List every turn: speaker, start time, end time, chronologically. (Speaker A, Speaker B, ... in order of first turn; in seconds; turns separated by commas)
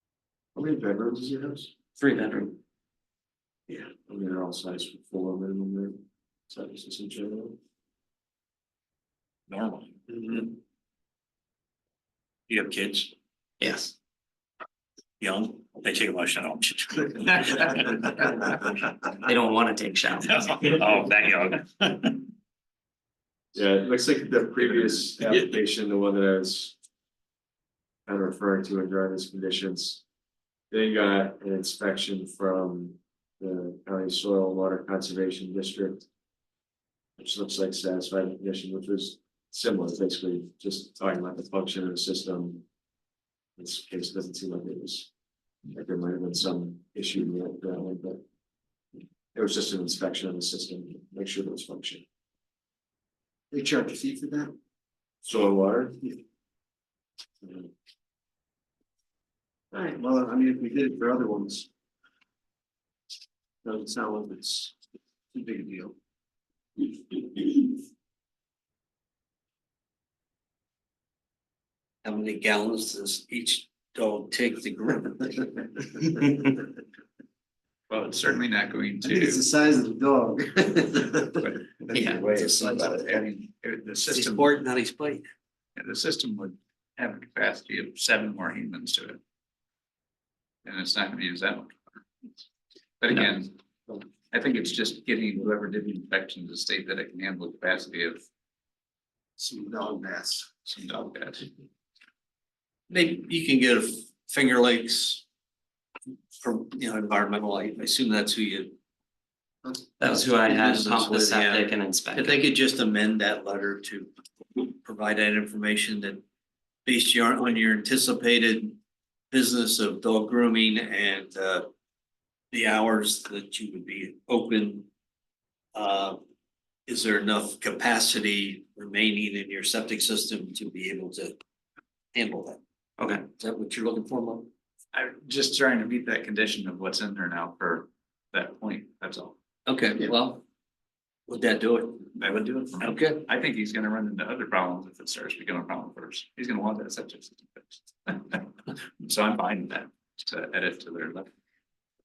Speaker A: 0.6-1.7, Speaker B: 2.0-2.6, Speaker A: 3.9-7.6, Speaker C: 9.5-10.0, Speaker C: 12.5-13.1, Speaker B: 13.6-13.9, Speaker C: 15.2-17.9, Speaker B: 19.2-20.3, Speaker C: 20.2-22.1, Speaker A: 23.5-26.8, Speaker A: 28.1-30.0, Speaker A: 30.7-36.1, Speaker A: 37.2-42.6, Speaker A: 43.6-45.1, Speaker A: 45.7-48.2, Speaker A: 49.4-52.0, Speaker D: 53.5-54.5, Speaker A: 55.2-56.0, Speaker D: 59.7-61.7, Speaker D: 63.6-64.8, Speaker D: 65.3-66.0, Speaker D: 66.8-67.7, Speaker E: 72.0-75.6, Speaker F: 77.9-79.5, Speaker D: 79.0-81.6, Speaker F: 81.5-84.5, Speaker B: 81.9-82.2, Speaker D: 82.3-83.0, Speaker E: 84.1-85.2, Speaker F: 85.8-89.2, Speaker F: 90.7-91.7, Speaker F: 93.0-98.2, Speaker D: 99.4-100.5, Speaker F: 100.7-101.5, Speaker E: 102.9-105.2, Speaker E: 106.4-108.8, Speaker B: 110.0-112.4, Speaker E: 110.2-116.2, Speaker E: 116.9-118.8, Speaker E: 119.3-121.7, Speaker E: 122.5-124.9, Speaker E: 125.7-126.2, Speaker E: 126.9-131.4, Speaker E: 132.1-132.6, Speaker B: 133.0-133.2, Speaker E: 133.4-134.5, Speaker F: 134.9-139.4, Speaker E: 139.7-140.4, Speaker E: 141.3-142.1, Speaker F: 142.2-151.3, Speaker E: 142.8-143.2